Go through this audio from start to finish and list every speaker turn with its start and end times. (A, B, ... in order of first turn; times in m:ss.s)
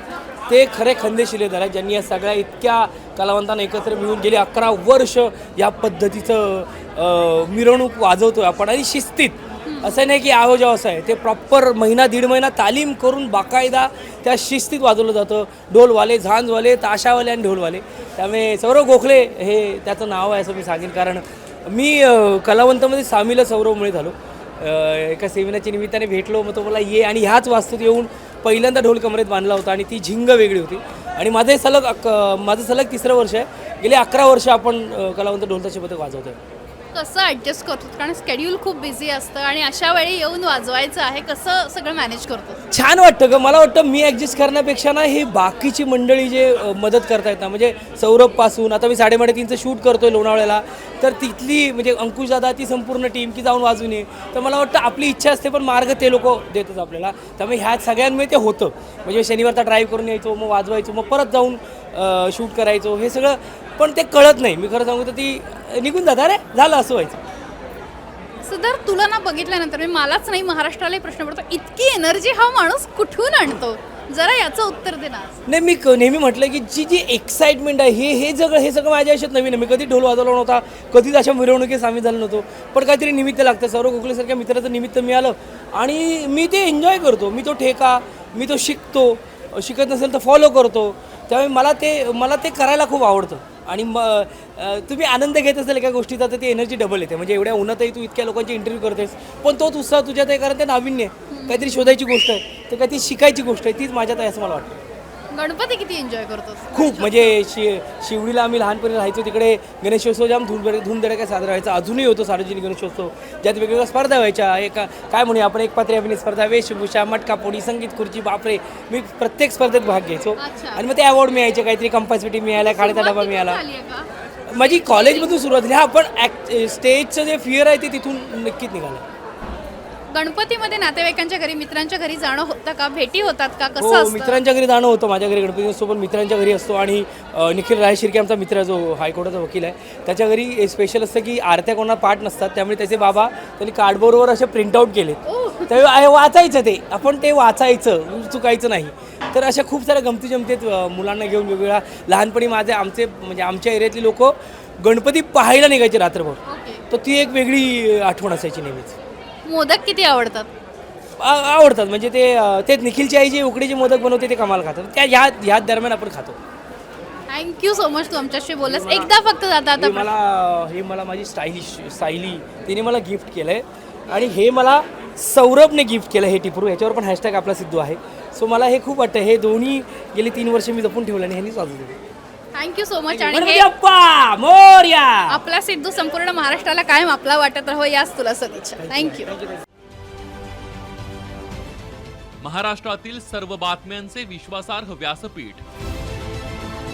0:00.5-0:36.4 A
0:09.6-0:10.0 B
0:36.9-0:42.6 B
0:42.7-1:07.2 A
1:08.4-1:15.4 B
1:15.4-1:44.8 A
1:41.3-1:41.9 B
1:45.3-1:47.3 B
1:46.7-2:03.6 A
2:00.4-2:00.8 B
2:02.6-2:05.3 B
2:04.5-2:09.0 A
2:10.1-2:14.4 B
2:13.8-2:39.0 A
2:25.2-2:25.8 B
2:36.4-2:36.8 B
2:39.4-2:40.5 B
2:41.2-2:46.4 A
2:47.3-2:50.1 B
2:48.6-2:49.1 A
2:49.8-3:01.9 A
3:02.5-3:03.7 B
3:03.1-3:05.4 A
3:05.3-3:09.3 B
3:12.4-3:15.6 C